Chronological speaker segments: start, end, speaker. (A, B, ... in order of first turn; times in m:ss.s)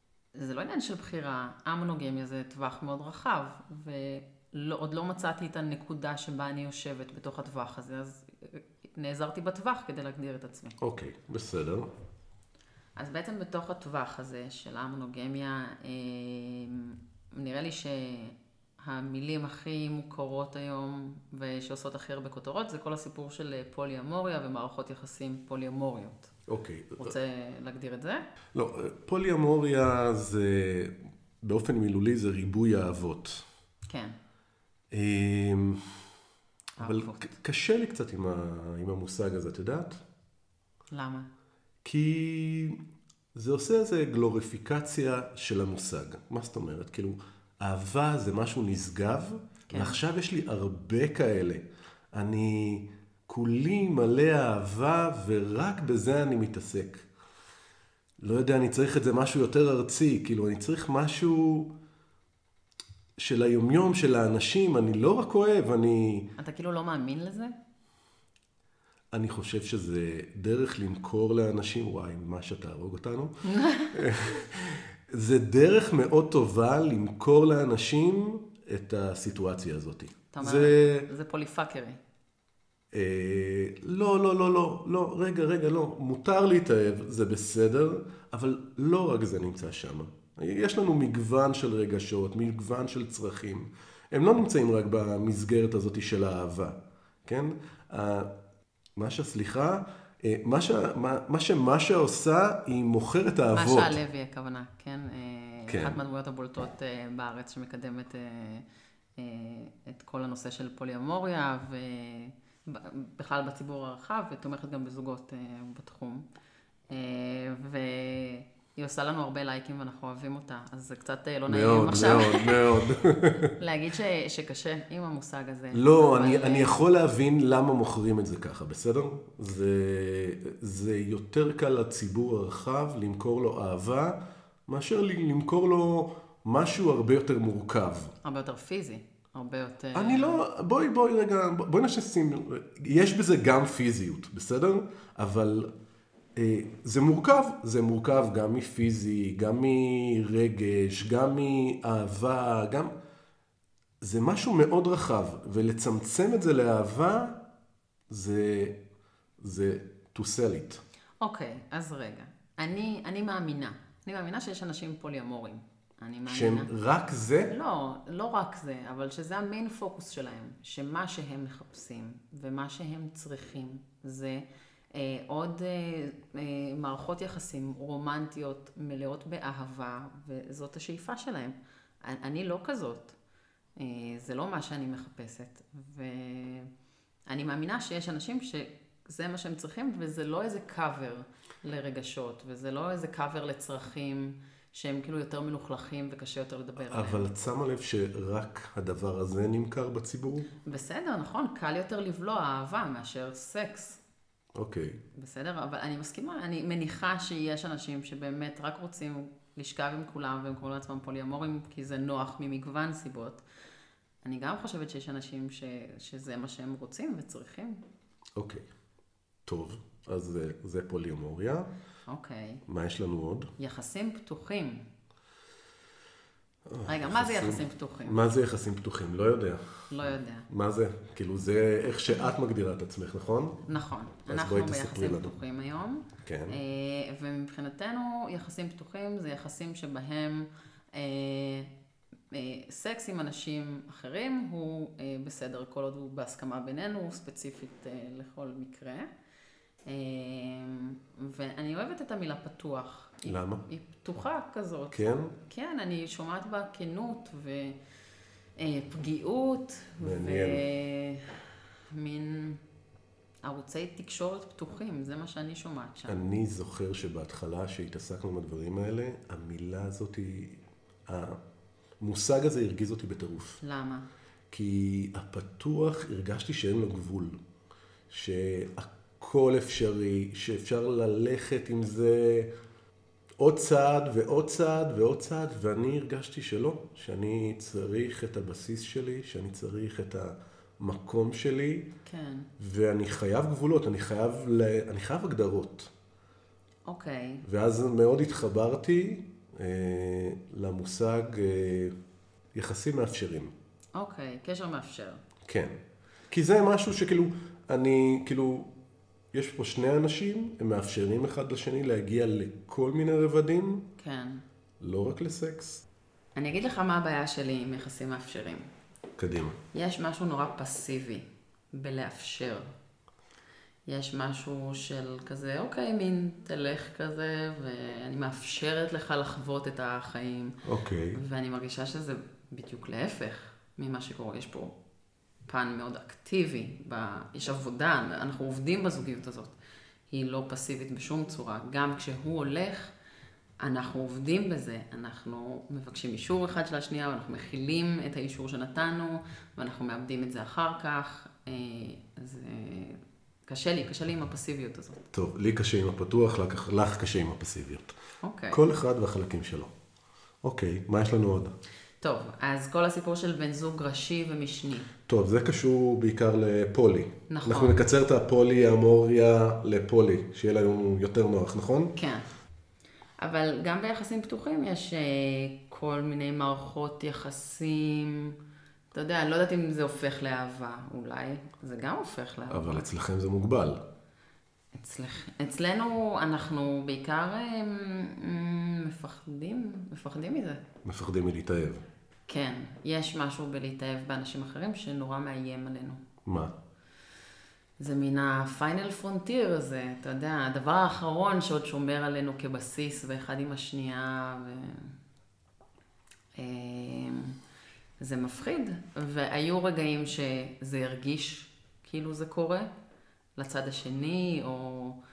0:00.4-0:10.8 A
0:10.8-0:11.9 B
0:13.0-0:26.3 A
0:26.5-0:27.2 B
0:27.0-0:28.3 A
0:28.5-0:33.4 B
0:33.9-0:34.2 A
0:34.9-0:35.9 B
0:36.8-0:37.3 A
0:36.8-0:40.0 B
0:40.9-0:41.3 A
0:41.8-0:42.8 B
0:43.3-0:57.1 B
0:49.7-0:50.0 A
0:58.2-1:01.7 B
1:03.2-1:06.3 B
1:06.4-1:07.6 A
1:09.1-1:21.1 B
1:13.4-1:14.1 A
1:20.3-1:22.0 A
1:22.9-1:38.3 B
1:39.0-1:44.0 B
1:43.5-1:48.7 A
1:45.7-1:46.0 B
1:49.2-1:56.3 A
1:56.9-2:02.8 A
2:01.5-2:03.5 B
2:03.6-2:06.8 A
2:05.7-2:18.1 B
2:18.2-2:20.4 A
2:20.0-2:25.7 B
2:26.4-2:32.9 B
2:34.0-2:37.4 B
2:38.1-2:38.8 B
2:39.4-2:40.8 B
2:41.2-2:46.7 A
2:46.3-2:47.5 B
2:47.5-3:03.2 A
3:03.8-3:06.7 A
3:07.3-3:17.5 A
3:16.8-3:20.5 B
3:20.6-3:24.0 A
3:24.6-3:25.0 B
3:25.2-3:33.4 A
3:34.2-3:37.8 A
3:38.4-3:38.6 B
3:39.5-3:41.7 B
3:42.1-3:42.6 A
3:42.7-3:43.5 B
3:43.6-3:44.9 A
3:46.7-3:49.7 B
3:46.9-3:48.2 A
3:49.9-3:50.5 A
3:50.5-3:53.6 B
3:53.6-4:01.7 A
3:54.3-3:55.3 B
3:56.2-3:56.6 B
4:02.3-4:09.1 A
4:09.9-4:17.8 A
4:13.2-4:13.6 B
4:14.9-4:15.3 B
4:18.6-4:22.6 A
4:20.0-4:20.6 B
4:23.4-4:26.2 A
4:26.1-4:31.4 B
4:32.0-4:33.6 B
4:33.6-4:34.1 A
4:34.5-4:37.4 B
4:38.1-4:42.5 B
4:43.4-4:51.9 B
4:52.1-4:52.5 A
4:52.6-4:55.9 B
4:56.9-4:57.4 A
4:57.4-5:02.0 B
5:02.5-5:03.5 B
5:04.0-5:05.2 A
5:05.4-5:05.8 B
5:06.3-5:08.7 B
5:09.3-5:13.9 B
5:14.0-5:14.4 A
5:14.8-5:15.8 B
5:16.4-5:18.7 A
5:19.2-5:19.6 B
5:19.7-5:22.7 A
5:23.9-5:30.6 A
5:30.6-5:31.2 B
5:31.1-5:34.8 A
5:35.5-5:39.6 A
5:40.1-5:42.9 A
5:43.6-5:55.0 A
5:55.1-5:58.0 B
5:58.2-5:58.6 A
5:58.5-5:59.7 B
6:00.4-6:01.6 B
6:02.0-6:04.9 A
6:05.1-6:11.9 B
6:07.3-6:07.8 A
6:12.0-6:12.3 A
6:13.2-6:18.4 A
6:18.9-6:22.9 A
6:22.5-6:23.8 B
6:24.7-6:30.6 A
6:30.8-6:31.8 B
6:32.3-6:36.0 A
6:36.2-6:36.5 B
6:37.8-6:45.0 A
6:46.4-6:47.4 A
6:48.0-6:52.7 A
6:53.4-6:55.0 A